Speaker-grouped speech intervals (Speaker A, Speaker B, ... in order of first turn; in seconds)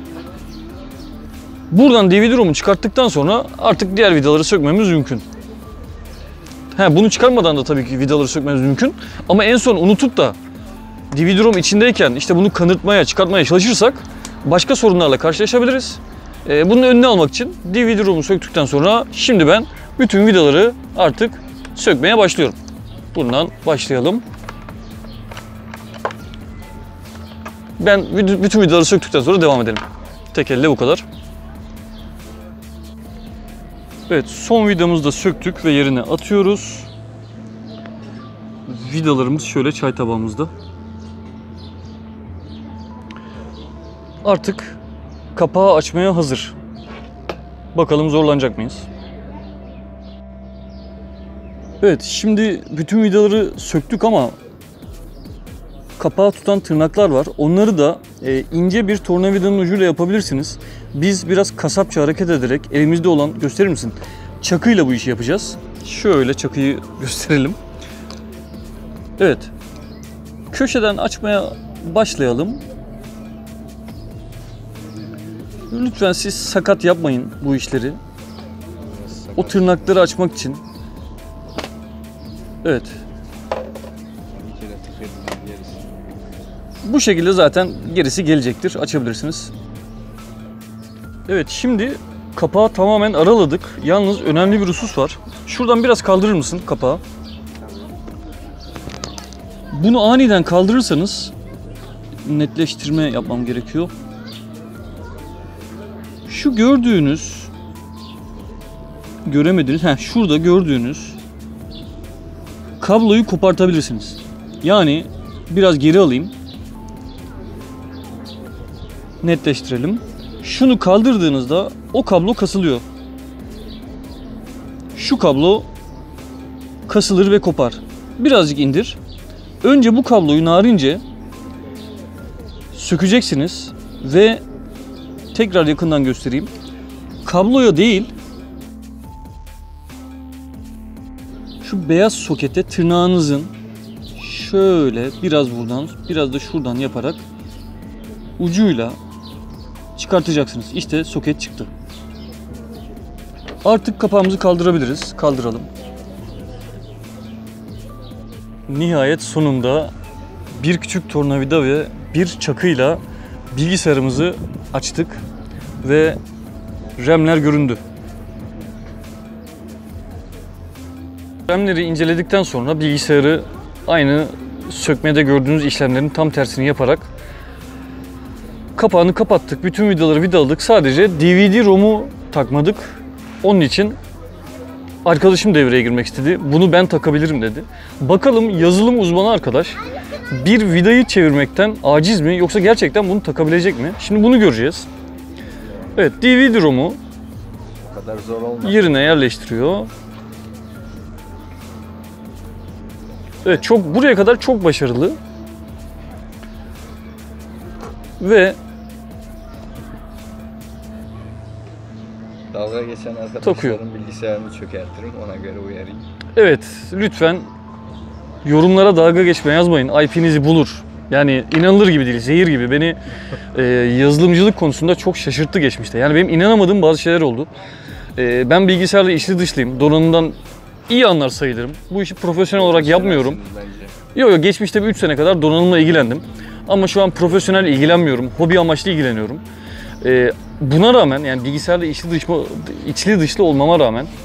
Speaker A: 1.7-5.2, 6.7-10.4, 11.1-22.6, 23.1-24.2, 27.8-31.1, 34.1-36.9, 38.7-40.5, 44.2-44.8, 45.4-46.5, 47.7-48.9, 51.8-54.4, 56.0-67.6, 69.2-69.5, 70.5-72.6, 75.7-78.0, 79.4-80.6, 82.6-83.0, 86.8-89.5, 91.3-97.0, 99.7-101.3, 102.2-103.9, 106.3-107.5, 109.3-111.2, 112.8-116.3, 119.2-122.8, 125.0-125.7, 126.9-129.0, 129.6-131.0, 132.7-134.4, 135.3-136.5, 137.2-138.1, 141.6-143.5, 144.2-147.2, 148.4-149.0, 150.0-151.7, 153.6-155.7, 158.7-159.9, 160.5-163.0, 163.5-165.2, 165.8-166.2, 167.0-167.8, 171.5-177.1, 178.8-184.0, 185.0-189.8, 190.3-194.9, 196.0-197.0, 198.6-199.9, 203.4-205.2, 208.2-208.6, 213.4-213.8, 216.3-217.5, 218.4-223.0, 223.5-227.5, 228.2-230.3, 230.9-233.4, 234.2-239.4, 240.0-244.1
Speaker B: 78.8-79.9, 84.3-86.2, 197.9-199.0, 212.5-216.1, 232.6-234.0